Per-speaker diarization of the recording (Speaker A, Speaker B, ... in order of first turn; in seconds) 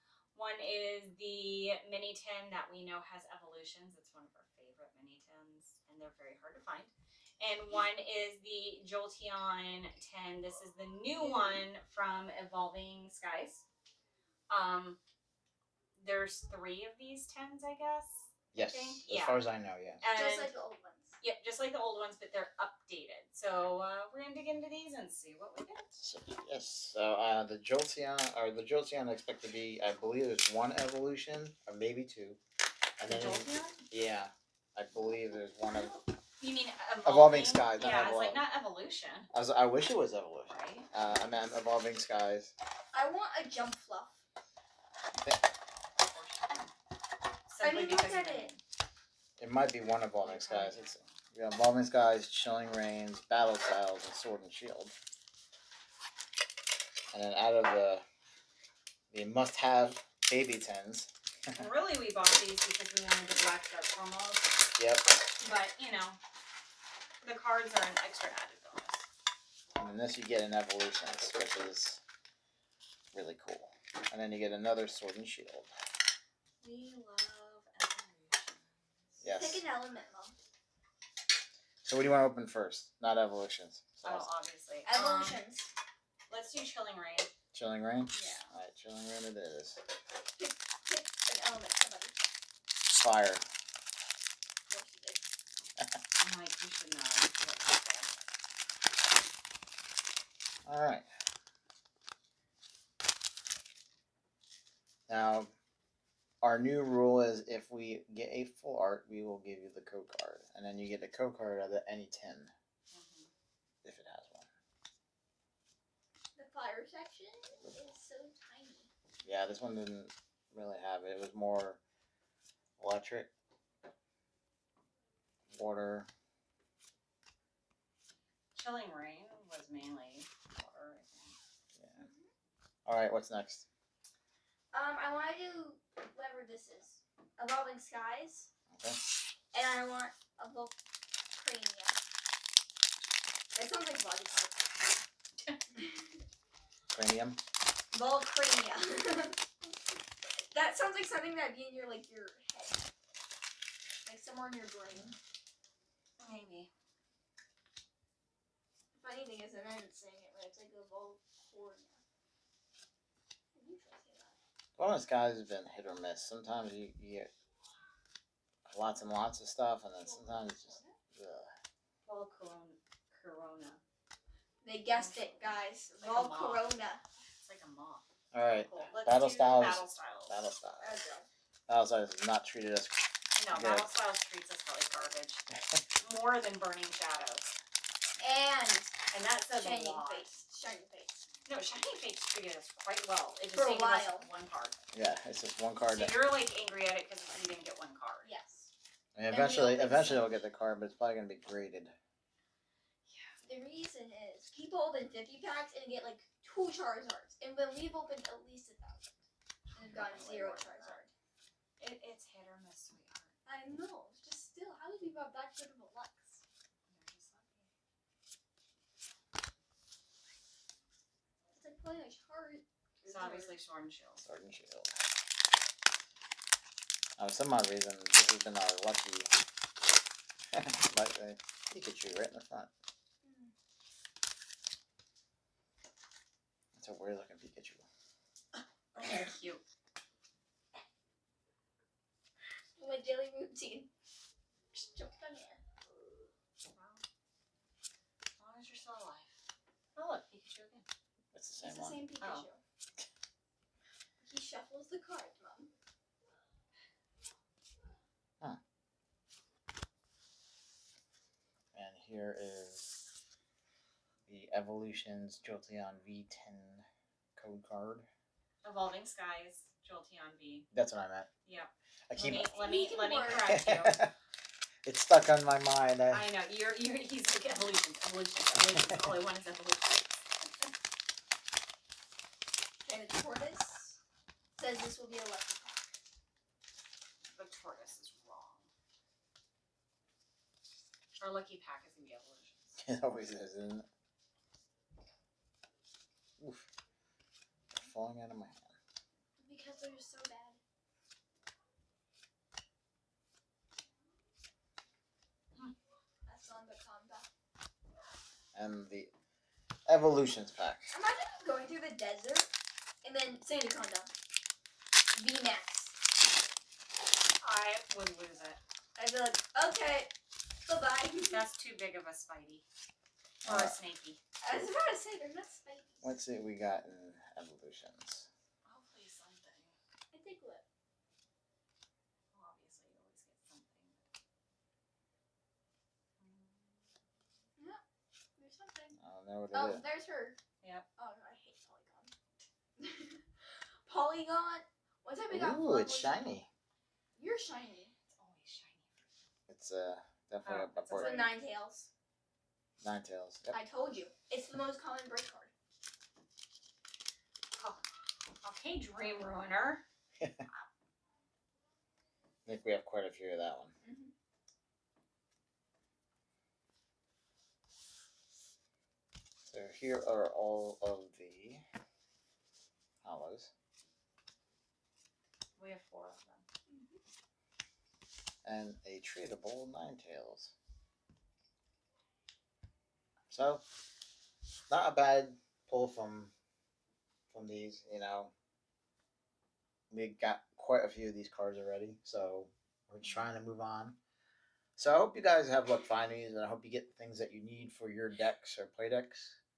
Speaker A: 0.3-13.7, 14.5-15.0, 16.0-19.4, 20.0-20.5, 21.2-25.9, 33.1-33.8, 36.4-39.3, 40.5-40.9, 46.0-46.7, 47.5-48.6, 50.2-51.2, 61.5-64.6, 65.4-66.2, 67.2-69.0, 76.6-79.2, 84.0-85.5, 86.3-87.3, 88.2-88.4, 96.2-98.2, 112.9-113.3, 128.6-131.4, 156.2-156.7, 172.1-173.8, 174.9-176.7, 177.4-178.1, 178.7-180.4, 183.4-185.4, 186.0-187.5, 189.1-190.3, 191.5-194.8, 195.9-198.3, 209.7-211.0, 211.8-213.4, 216.9-217.7, 223.1-224.2, 238.9-239.6, 246.7-247.0, 248.4-249.3, 250.0-250.9, 252.2-252.5, 268.6-270.7, 271.5-274.0, 276.1-280.7, 287.3-288.7, 291.2-292.8, 317.4-318.6, 321.2-322.6, 323.4-324.2, 328.6-329.8, 332.3-334.0, 336.2-336.9, 340.6-340.9, 348.1-349.1, 350.4-351.3, 357.6-357.8, 358.4-359.8, 375.6-376.4
Speaker B: 11.2-11.6, 20.1-21.2, 42.9-44.2, 47.6-48.5, 79.3-80.4, 84.9-85.7, 90.4-92.2, 94.7-95.3, 116.3-118.9, 132.0-132.3, 134.7-138.5, 139.5-140.7, 141.3-142.0, 143.5-145.0, 145.8-146.0, 147.9-149.4, 150.5-152.8, 154.1-155.2, 158.9-162.0, 163.5-164.4, 170.0-171.0, 174.6-177.0, 180.8-181.3, 188.2-188.9, 189.5-191.3, 193.5-194.3, 198.2-198.7, 199.3-200.3, 203.4-209.2, 209.8-211.1, 213.4-216.4, 221.5-223.5, 233.2-233.5, 242.8-243.9, 244.7-245.6, 251.6-252.6, 254.2-255.7, 272.5-273.6, 282.8-284.0, 284.6-286.0, 299.4-300.6, 306.3-307.3, 310.9-312.5, 313.0-314.1, 315.1-315.9, 319.0-320.1, 320.7-321.4, 324.4-326.1, 330.1-330.6, 338.4-339.0, 339.5-340.4, 341.0-342.1, 342.8-343.2, 343.8-346.2, 347.2-347.9, 350.9-351.9, 353.5-355.5, 363.8-364.1, 376.7-377.0
Speaker C: 18.5-20.0, 26.0-32.4, 33.0-36.0, 37.0-38.4, 39.3-42.5, 49.4-54.9, 57.1-58.0, 59.1-61.6, 64.8-65.1, 69.8-72.0, 73.1-75.7, 79.2-79.6, 81.8-84.3, 87.5-89.8, 92.9-93.4, 100.7-101.1, 105.1-105.5, 106.4-112.5, 113.8-114.5, 119.2-121.8, 122.8-123.3, 125.5-126.1, 131.8-132.1, 132.9-133.7, 138.7-139.0, 146.9-147.4, 164.8-167.3, 168.7-171.5, 178.3-180.9, 181.7-183.9, 194.9-196.2, 199.2-201.9, 224.2-224.9, 227.2-229.3, 230.5-232.7, 236.8-237.8, 251.3-252.1, 261.7-263.0, 264.3-266.8, 267.4-268.1, 270.7-271.3, 272.1-272.5, 273.3-274.1, 274.9-276.3, 292.8-293.9, 296.4-296.6, 297.7-298.8, 308.5-309.1, 309.9-310.9, 323.4-323.8, 326.0-328.3, 339.0-339.8, 345.3-346.5, 349.5-351.3, 352.8-353.6, 362.5-363.7, 369.5-371.6, 373.0-373.5, 378.4-380.5, 383.3-383.6, 384.7-386.3, 387.3-388.3, 389.9-394.0, 394.8-399.4